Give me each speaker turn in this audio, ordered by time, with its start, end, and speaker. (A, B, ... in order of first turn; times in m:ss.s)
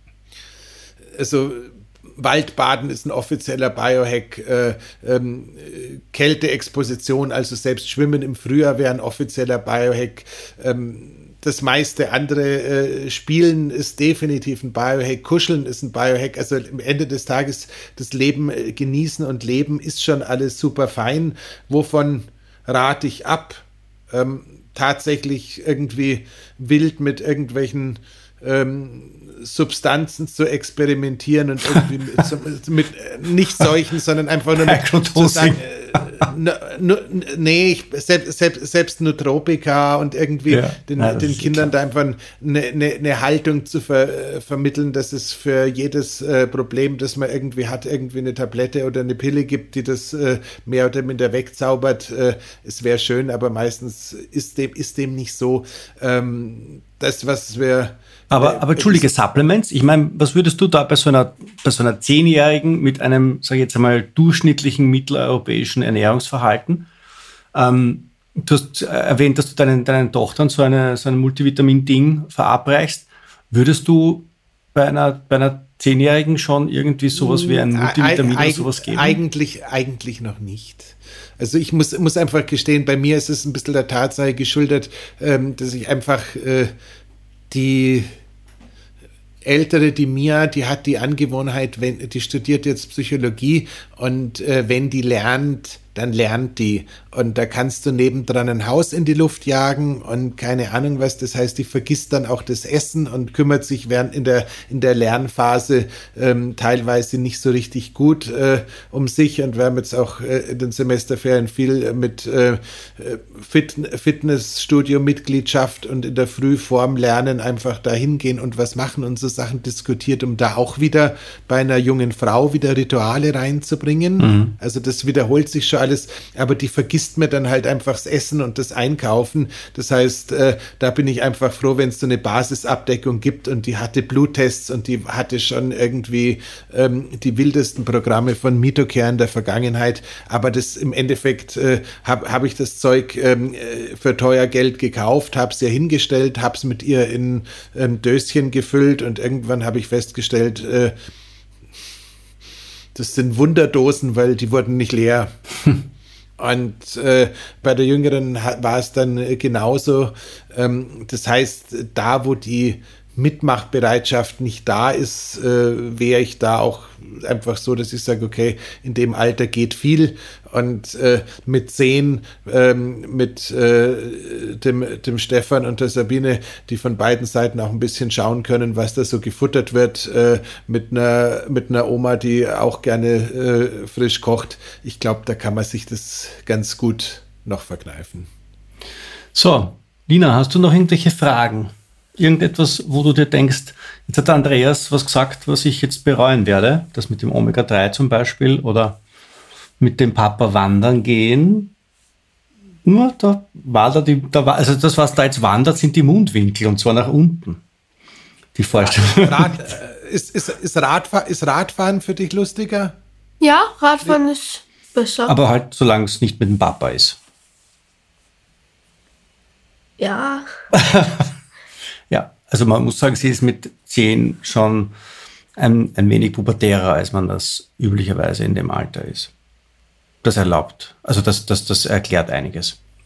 0:01.2-0:59.1 A
0:31.7-0:32.2 B
0:34.6-0:36.3 B
0:40.5-0:41.7 B
0:58.3-1:06.9 B
1:07.5-1:19.2 B
1:17.2-1:26.7 A
1:27.5-1:28.1 A
1:29.4-2:31.0 A
2:04.2-2:04.6 B
2:33.0-2:35.3 A
2:36.4-3:08.3 A
3:09.3-3:19.0 B
3:19.8-3:21.7 B
3:22.8-3:27.6 B
3:28.6-3:29.7 B
3:28.8-3:33.0 A
3:33.4-3:35.3 C
3:35.3-3:37.2 B
3:40.0-3:40.5 C
3:40.7-3:41.3 B
3:42.1-3:44.9 B
3:45.6-3:49.3 B
3:50.2-3:52.8 B